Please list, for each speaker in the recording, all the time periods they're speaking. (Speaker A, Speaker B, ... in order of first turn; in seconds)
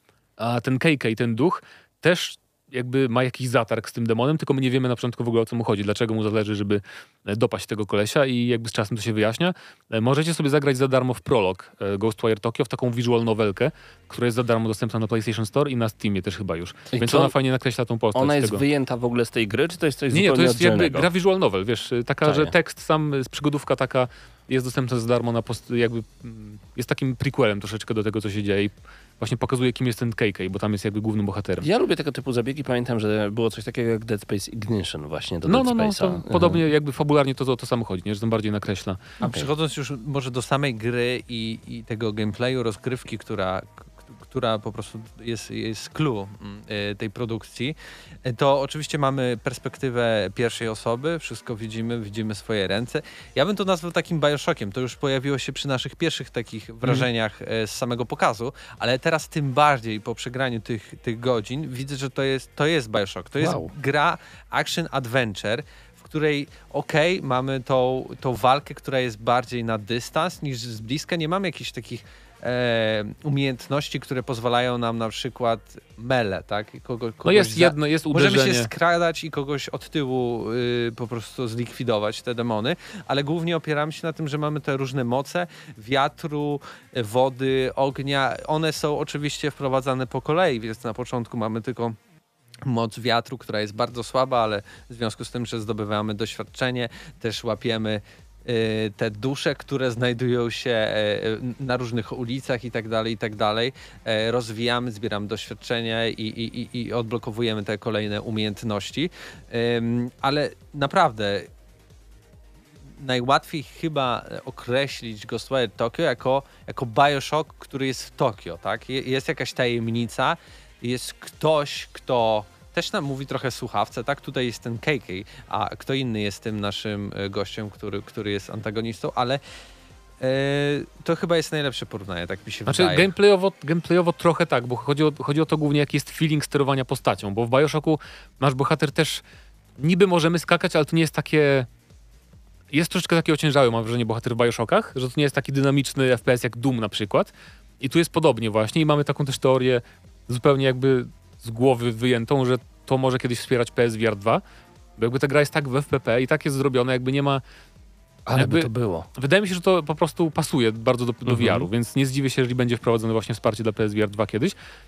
Speaker A: 0.4-18.6, 20.1-31.7, 35.5-39.1, 63.4-63.7, 77.2-78.7, 132.7-139.2, 139.8-141.7, 142.7-154.4, 155.0-157.4, 158.3-164.5
Speaker B: 16.9-17.3, 18.1-21.1, 22.2-22.5, 31.6-36.6, 39.2-39.5, 158.2-159.1, 161.2-161.7
Speaker C: 39.2-92.0, 92.6-111.5, 113.0-129.4, 130.2-133.1